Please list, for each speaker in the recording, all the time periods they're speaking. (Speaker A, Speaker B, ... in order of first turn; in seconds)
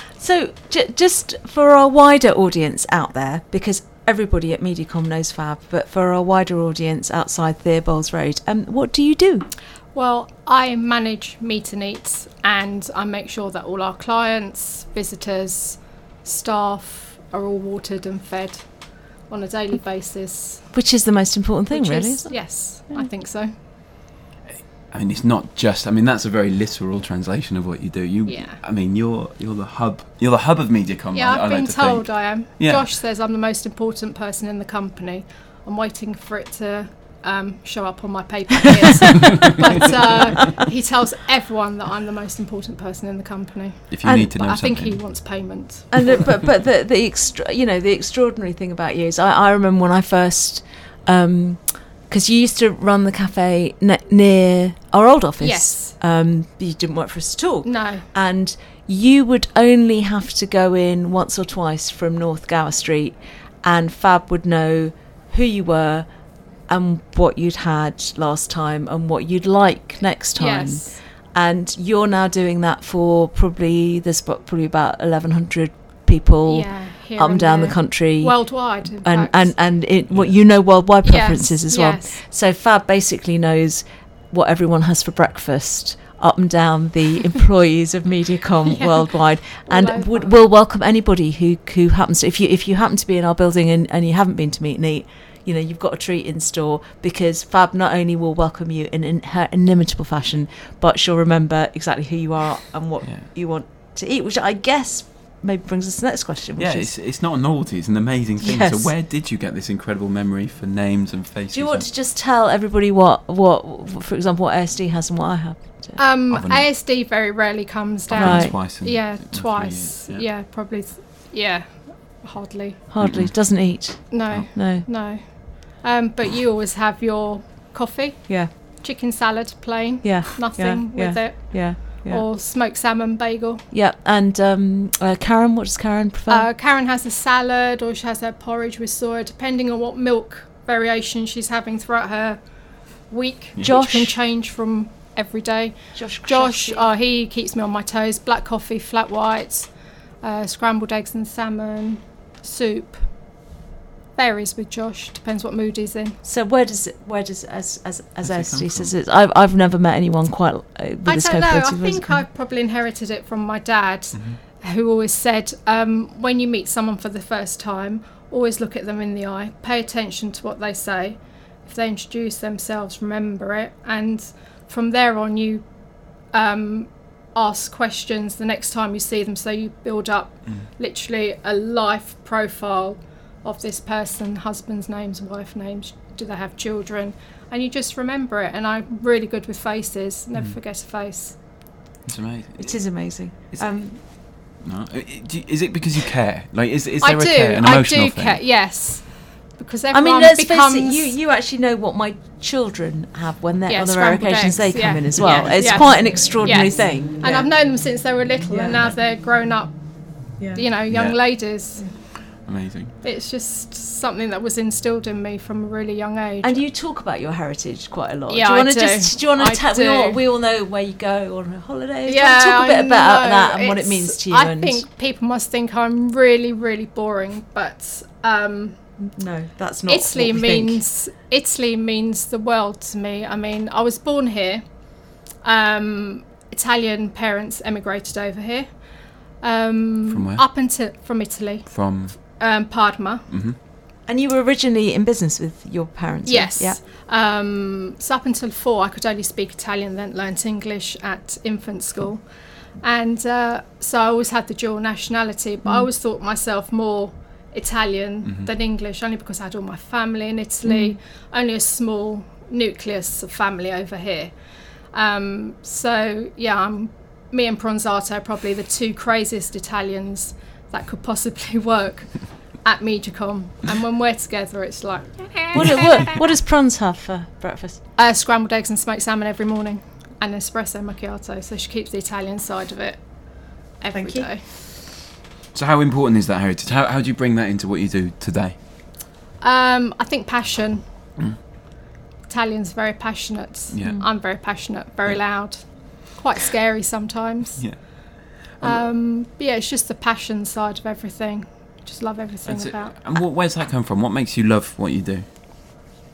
Speaker A: 0.2-9.5, 20.7-23.1, 44.0-44.3, 45.9-66.1, 66.7-106.9, 108.4-108.9, 111.5-116.0, 118.1-118.6, 122.9-124.9, 130.0-132.2, 133.7-136.5, 143.6-144.1, 145.9-146.8, 156.2-162.2, 192.6-194.0, 199.9-207.4, 208.5-208.8, 216.4-224.8, 229.0-230.8, 244.1-246.8, 260.6-260.9, 275.5-277.8, 283.9-284.3
Speaker B: 9.9-18.7, 19.3-20.7, 21.7-23.5, 28.3-28.6, 31.1-46.2, 55.4-56.0, 57.6-58.0, 70.3-71.0, 76.4-79.5, 81.0-82.1, 88.7-90.4, 116.0-122.8, 124.1-133.6, 136.3-142.4, 143.1-149.7, 150.2-153.0, 154.2-156.2, 161.0-175.7, 176.3-191.4, 197.0-201.2, 203.7-209.8, 210.3-211.8, 213.0-216.6, 218.3-220.2, 222.1-228.8, 229.9-234.6, 235.4-238.7, 239.4-243.3, 246.2-252.2, 252.8-264.3, 264.9-276.2, 277.9-283.0, 283.8-284.4, 289.4-290.8, 292.3-297.6, 298.6-303.2
Speaker C: 24.9-32.9, 43.9-45.0, 80.1-80.4, 106.6-111.9, 116.3-116.7, 118.1-120.2, 123.0-124.5, 158.2-158.9, 164.1-164.4, 192.1-198.4, 210.9-211.2, 212.4-212.9, 240.1-240.4, 241.7-242.2, 243.3-243.6, 285.5-288.6, 293.7-294.0, 298.5-298.8, 302.4-305.3